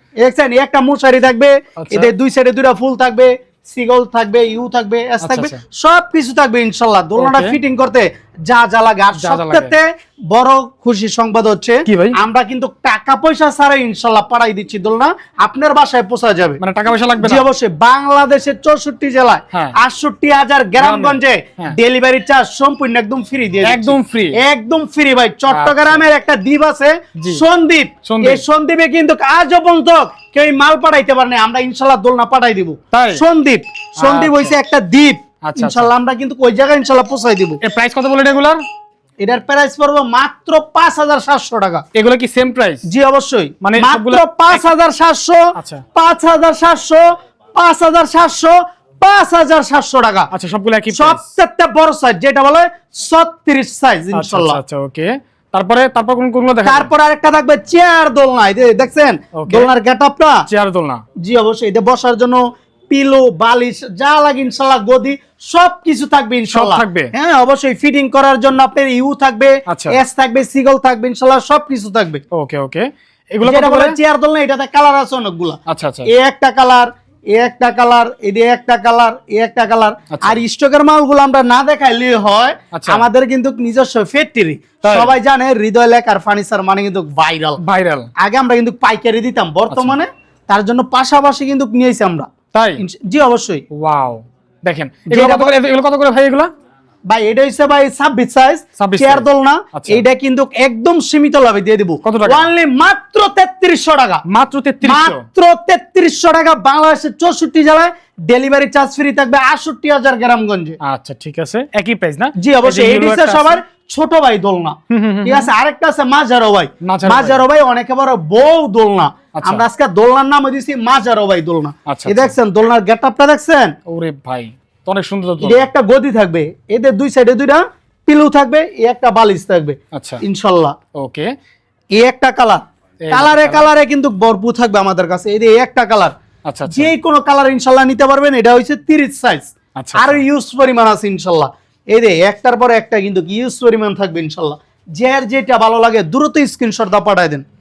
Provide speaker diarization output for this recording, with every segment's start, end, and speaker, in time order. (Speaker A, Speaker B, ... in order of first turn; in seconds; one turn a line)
Speaker A: 0.2-16.6
Speaker B: 1.8-2.1
Speaker B: 5.2-5.6
Speaker B: 7.2-7.6
Speaker B: 9.2-9.7
Speaker B: 11.9-12.2
Speaker B: 16.6-17.4
Speaker A: 17.2-37.6
Speaker B: 20.8-21.8
Speaker B: 23.6-24.4
Speaker B: 25.5-26.0
Speaker B: 27.2-27.4
Speaker B: 28.0-28.4
Speaker B: 32.9-33.2
Speaker B: 34.0-34.5
Speaker B: 35.5-35.9
Speaker B: 37.6-38.6
Speaker A: 39.2-41.8
Speaker B: 41.9-42.8
Speaker A: 42.9-50.3
Speaker B: 43.6-44.7
Speaker B: 45.6-45.8
Speaker B: 50.3-51.3
Speaker A: 50.9-54.6
Speaker B: 54.1-56.9
Speaker A: 56.6-60.4
Speaker B: 59.4-59.7
Speaker B: 60.5-61.0
Speaker A: 61.2-72.2
Speaker B: 66.5-67.1
Speaker B: 69.7-70.0
Speaker B: 72.3-74.0
Speaker A: 73.4-87.6
Speaker B: 75.7-76.1
Speaker B: 80.1-80.4
Speaker B: 82.7-83.0
Speaker B: 84.8-85.1
Speaker B: 87.6-88.1
Speaker A: 88.2-92.3
Speaker B: 89.7-90.0
Speaker B: 92.5-92.8
Speaker A: 92.8-93.7
Speaker B: 93.7-96.5
Speaker A: 95.1-95.5
Speaker A: 97.1-104.2
Speaker B: 98.8-100.0
Speaker B: 102.0-102.5
Speaker B: 104.3-105.2
Speaker A: 104.8-110.8
Speaker B: 110.8-113.6
Speaker A: 112.4-123.7
Speaker B: 114.9-115.5
Speaker B: 116.8-117.4
Speaker B: 119.3-119.6
Speaker B: 121.9-122.3
Speaker B: 123.9-125.7
Speaker A: 125.4-130.8
Speaker B: 129.9-130.2
Speaker B: 131.0-131.3
Speaker A: 131.9-136.1
Speaker B: 133.1-133.7
Speaker B: 136.5-136.9
Speaker A: 136.7-147.4
Speaker B: 139.8-140.2